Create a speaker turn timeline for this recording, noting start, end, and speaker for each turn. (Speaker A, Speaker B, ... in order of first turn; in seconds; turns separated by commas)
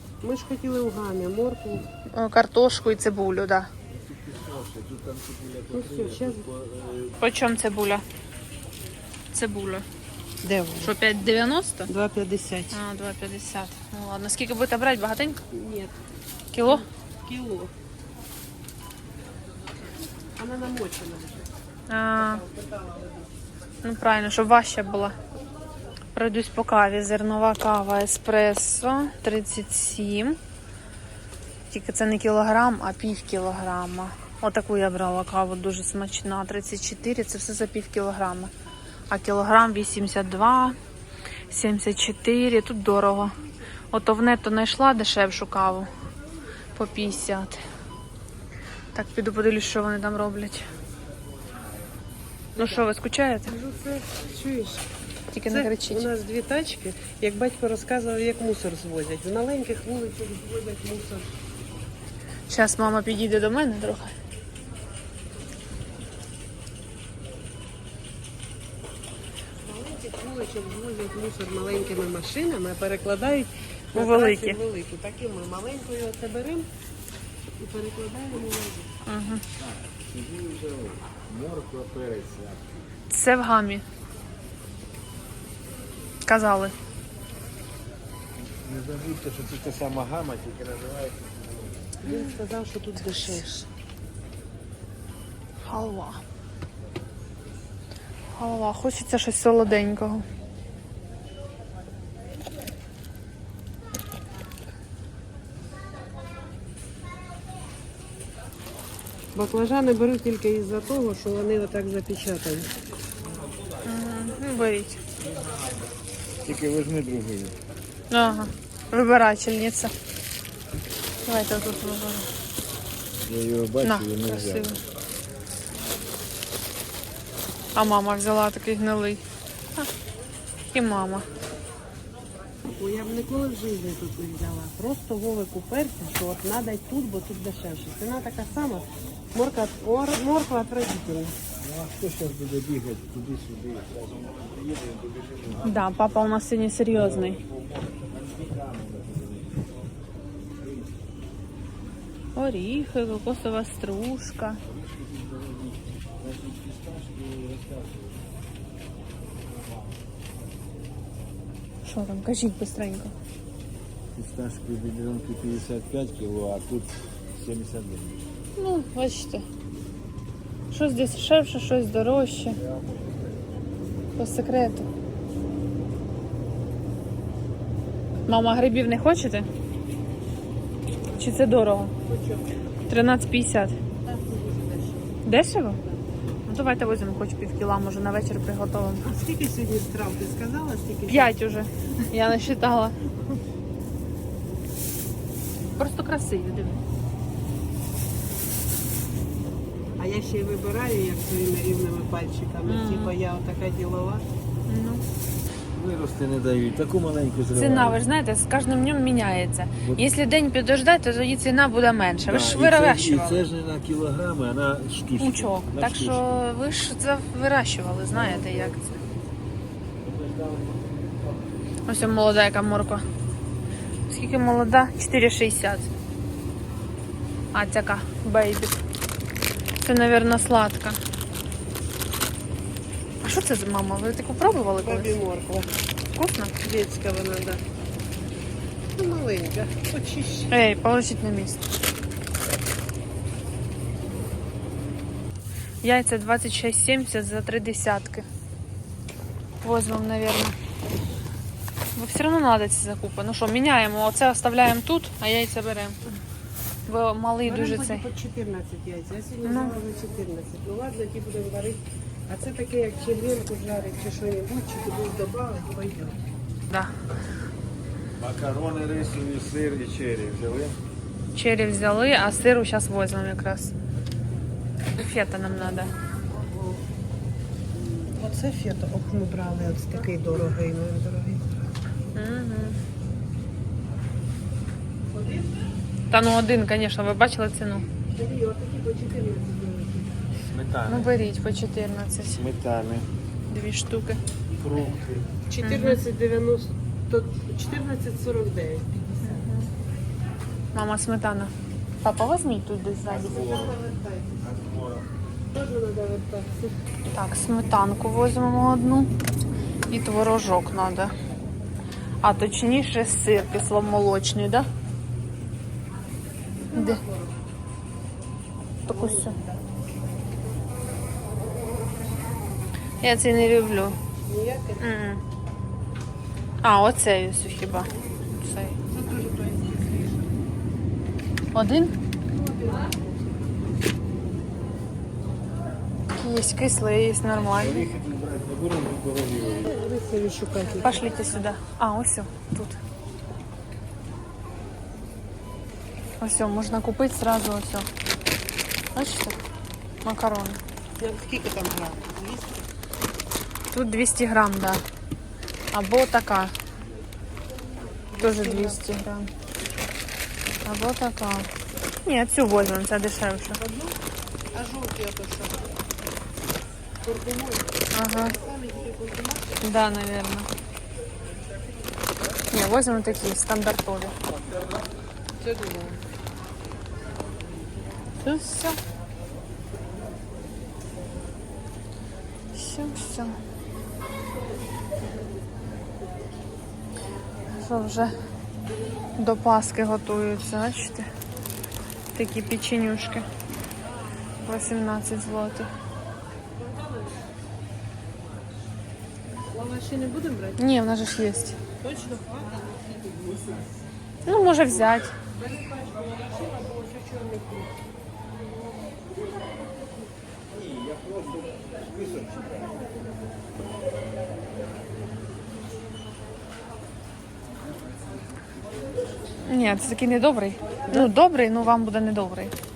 Speaker A: 0.2-1.9, Speaker B: 2.1-3.7, Speaker C: 3.9-7.2, Speaker A: 5.7-6.4, Speaker B: 7.2-8.0, Speaker B: 9.3-9.8, Speaker A: 10.4-10.9, Speaker B: 10.8-11.9, Speaker A: 11.9-12.7, Speaker B: 12.7-15.4, Speaker A: 15.5-15.9, Speaker B: 16.5-16.8, Speaker A: 16.6-17.7, Speaker A: 20.4-21.5, Speaker B: 21.9-22.4, Speaker A: 22.2-23.3, Speaker B: 23.8-25.1, Speaker B: 26.1-30.4, Speaker B: 31.7-38.5, Speaker B: 39.1-40.8, Speaker B: 41.5-43.3, Speaker B: 43.9-45.9, Speaker B: 46.7-47.6, Speaker B: 48.9-50.7, Speaker A: 52.5-52.8, Speaker B: 52.6-53.5, Speaker A: 53.5-54.8, Speaker B: 55.3-56.1, Speaker A: 55.5-61.3, Speaker B: 62.5-64.1, Speaker A: 69.6-76.7, Speaker B: 73.9-74.6, Speaker A: 77.6-78.9, Speaker B: 79.1-79.4, Speaker C: 79.5-82.7, Speaker B: 83.1-83.8, Speaker B: 86.3-86.7, Speaker C: 88.4-91.8, Speaker A: 92.0-93.7, Speaker B: 95.6-96.2, Speaker B: 98.3-100.2, Speaker A: 109.3-112.7, Speaker B: 113.8-115.0, Speaker C: 115.2-115.7, Speaker C: 116.4-117.5, Speaker B: 118.1-119.9, Speaker B: 121.2-122.3, Speaker C: 123.2-124.7, Speaker B: 123.8-124.8, Speaker B: 127.7-129.2, Speaker B: 130.7-131.2, Speaker A: 132.7-141.3, Speaker C: 141.6-145.9, Speaker B: 145.6-147.4, Speaker C: 146.9-149.7, Speaker C: 150.5-151.0, Speaker B: 152.3-154.6, Speaker C: 154.6-158.2, Speaker C: 159.5-160.0, Speaker B: 161.8-163.1, Speaker C: 164.1-168.3, Speaker B: 168.6-169.4, Speaker B: 170.7-172.6, Speaker C: 172.6-173.5, Speaker B: 174.2-174.9, Speaker B: 178.3-179.5, Speaker B: 181.1-181.9, Speaker A: 182.0-182.5, Speaker B: 182.9-183.8, Speaker A: 184.0-185.2, Speaker B: 185.2-185.8, Speaker B: 186.5-189.0, Speaker A: 189.0-191.4, Speaker B: 191.1-192.9, Speaker B: 195.8-196.8, Speaker A: 200.0-204.2, Speaker B: 202.7-203.1, Speaker B: 204.7-205.0, Speaker C: 205.7-208.0, Speaker B: 207.5-213.4, Speaker C: 212.2-216.3, Speaker B: 215.2-219.0, Speaker A: 218.2-218.6, Speaker C: 220.0-221.6, Speaker B: 221.8-223.0, Speaker B: 224.1-225.9, Speaker B: 227.5-228.8, Speaker B: 229.8-231.0, Speaker B: 233.2-235.1, Speaker A: 234.7-235.7, Speaker B: 236.1-236.5, Speaker A: 236.6-237.6, Speaker A: 238.9-240.5, Speaker B: 240.5-241.6, Speaker B: 245.8-248.3, Speaker B: 249.6-250.6, Speaker B: 251.9-256.0, Speaker B: 256.9-258.0, Speaker A: 257.4-266.2, Speaker B: 259.4-259.8, Speaker C: 268.1-270.8, Speaker B: 271.3-273.7, Speaker B: 275.0-275.9, Speaker A: 276.3-276.8, Speaker A: 278.1-281.4, Speaker B: 282.1-282.8, Speaker A: 285.1-285.5, Speaker B: 286.1-287.9, Speaker A: 288.1-290.2, Speaker C: 290.4-291.1, Speaker B: 290.9-292.4, Speaker C: 292.3-293.1, Speaker B: 293.5-294.2, Speaker C: 294.5-295.3, Speaker A: 295.5-299.4, Speaker B: 295.6-296.0, Speaker B: 299.2-299.7, Speaker B: 300.7-303.4, Speaker C: 303.1-303.8, Speaker A: 303.1-304.4, Speaker C: 304.4-305.1, Speaker A: 305.5-306.8, Speaker B: 307.1-309.1, Speaker B: 309.9-311.1, Speaker B: 312.2-314.7, Speaker A: 316.6-317.4, Speaker B: 316.7-317.0, Speaker B: 318.9-319.4, Speaker A: 318.9-319.6, Speaker B: 323.0-324.0, Speaker A: 324.3-325.0, Speaker B: 324.8-325.2, Speaker B: 326.6-328.8, Speaker A: 328.9-330.4, Speaker B: 331.5-331.9, Speaker A: 332.3-333.1, Speaker B: 336.1-337.9, Speaker C: 337.5-339.7, Speaker A: 339.6-341.4, Speaker B: 340.8-342.8, Speaker B: 346.2-347.9, Speaker B: 348.9-349.4, Speaker B: 350.0-350.6, Speaker A: 351.0-352.6, Speaker B: 353.7-354.8, Speaker B: 355.7-356.5, Speaker A: 358.1-358.8, Speaker B: 358.2-359.3, Speaker B: 360.6-361.5, Speaker B: 362.0-363.6, Speaker A: 363.5-363.9, Speaker A: 364.5-365.8, Speaker A: 367.0-369.6, Speaker B: 367.9-368.3, Speaker B: 369.6-370.5, Speaker B: 372.5-374.1, Speaker A: 375.4-376.0, Speaker B: 378.2-378.8, Speaker B: 382.5-383.4, Speaker B: 387.5-388.1, Speaker B: 389.2-391.1, Speaker B: 392.1-393.3, Speaker B: 394.4-395.7, Speaker A: 396.6-397.2, Speaker A: 399.5-400.6, Speaker B: 400.6-401.6, Speaker A: 401.8-403.1, Speaker B: 404.2-405.1, Speaker A: 405.3-407.7, Speaker C: 410.5-412.8, Speaker B: 419.4-422.5